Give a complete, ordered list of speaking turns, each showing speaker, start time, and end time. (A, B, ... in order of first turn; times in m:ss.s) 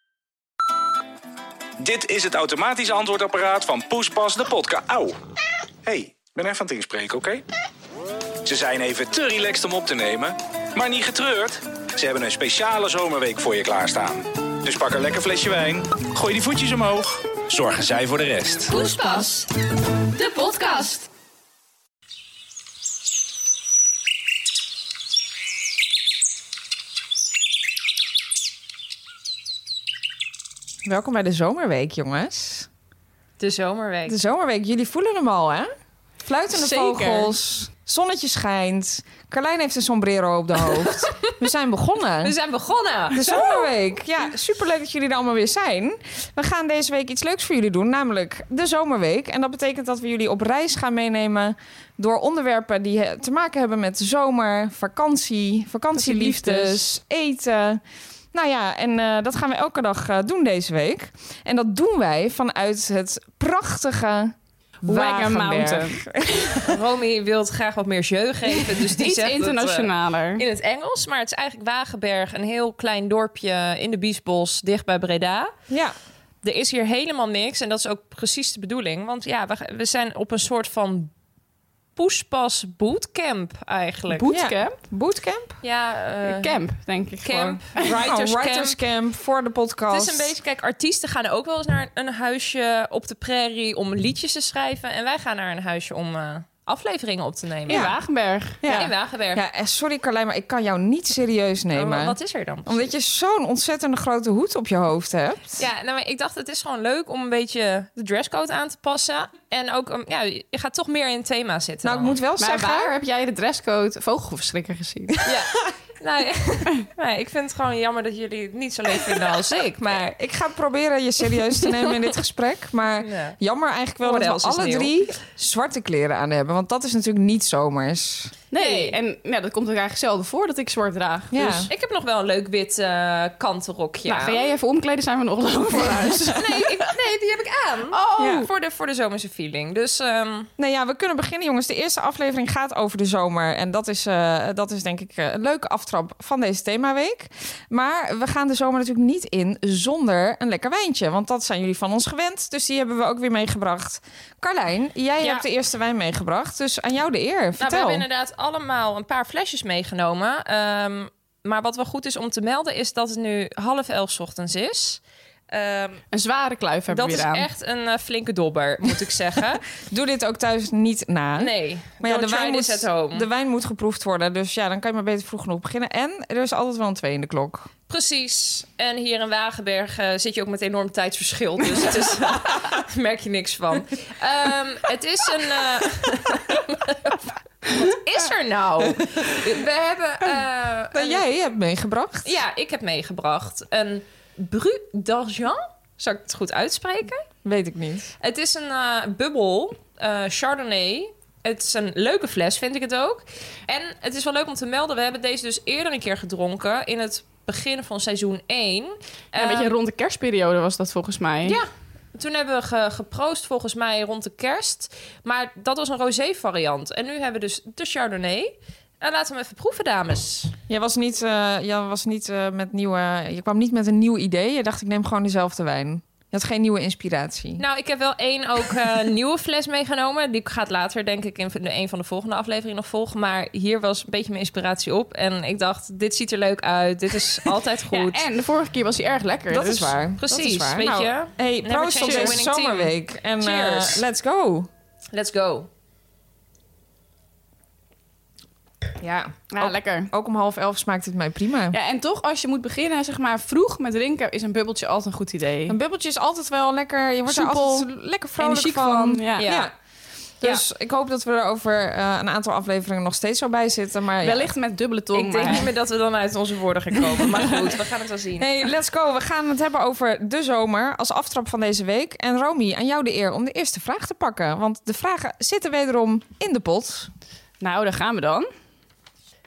0:01.8-0:05.2 A
0:05.8-0:07.4 A
0:08.4-0:18.8 A
0:18.7-0:19.5 B
0:20.1-0:21.1 B
0:30.8-0:32.7 C
0:33.4-0:34.2 B
0:34.1-0:35.7 C
0:36.3-0:42.3 C
0:36.5-0:37.4 D
0:42.2-0:43.4 B
0:43.1-0:57.8 C
0:56.0-0:56.8 D
0:58.3-1:06.8 C
1:04.8-1:06.6 D
1:06.7-1:15.5 B
1:08.9-1:10.4 D
1:15.7-1:16.0 C
1:16.4-1:21.1 B
1:22.0-1:24.3 B
1:24.1-1:24.8 D
1:24.3-1:25.6 C
1:25.6-1:26.6 B
1:26.2-1:28.0 D
1:27.2-1:28.8 B
1:27.8-1:30.3 C
1:29.9-1:37.9 B
1:37.7-1:38.9 D
1:37.7-1:38.0 C
1:38.6-1:45.6 C
1:38.7-1:39.4 B
1:41.7-1:42.9 B
1:45.6-1:52.2 B
1:51.8-1:52.9 C
1:52.4-1:55.2 D
1:55.2-2:00.2 B
2:00.2-2:08.3 C
2:03.0-2:03.4 B
2:04.0-2:04.9 B
2:08.5-2:11.7 D
2:08.6-2:09.0 B
2:11.3-2:11.7 C
2:11.7-2:14.5 B
2:14.1-2:16.8 D
2:16.4-2:20.5 B
2:17.9-2:18.5 D
2:18.2-2:18.5 C
2:20.6-2:38.0 C
2:35.2-2:35.5 B
2:37.6-2:46.0 B
2:46.1-2:47.5 D
2:46.9-2:49.6 B
2:49.8-2:57.7 C
2:51.4-2:53.3 B
2:57.9-3:11.2 B
3:10.9-3:12.4 C
3:12.2-3:17.3 B
3:17.4-3:18.1 C
3:18.2-3:29.7 B
3:29.4-3:31.6 D
3:31.4-3:40.5 B
3:40.7-3:47.6 C
3:47.6-3:58.2 B
3:57.9-4:00.0 D
3:59.5-4:04.7 C
4:00.2-4:04.0 B
4:02.0-4:02.4 D
4:05.1-4:05.7 B
4:09.0-4:11.8 C
4:09.5-4:10.1 D
4:11.7-4:15.8 D
4:15.7-4:19.7 C
4:17.3-4:17.9 D
4:18.4-4:19.5 D
4:19.4-4:19.7 B
4:20.4-4:24.5 C
4:24.2-4:25.7 D
4:25.1-4:28.5 B
4:28.4-4:37.1 C
4:37.6-4:38.5 D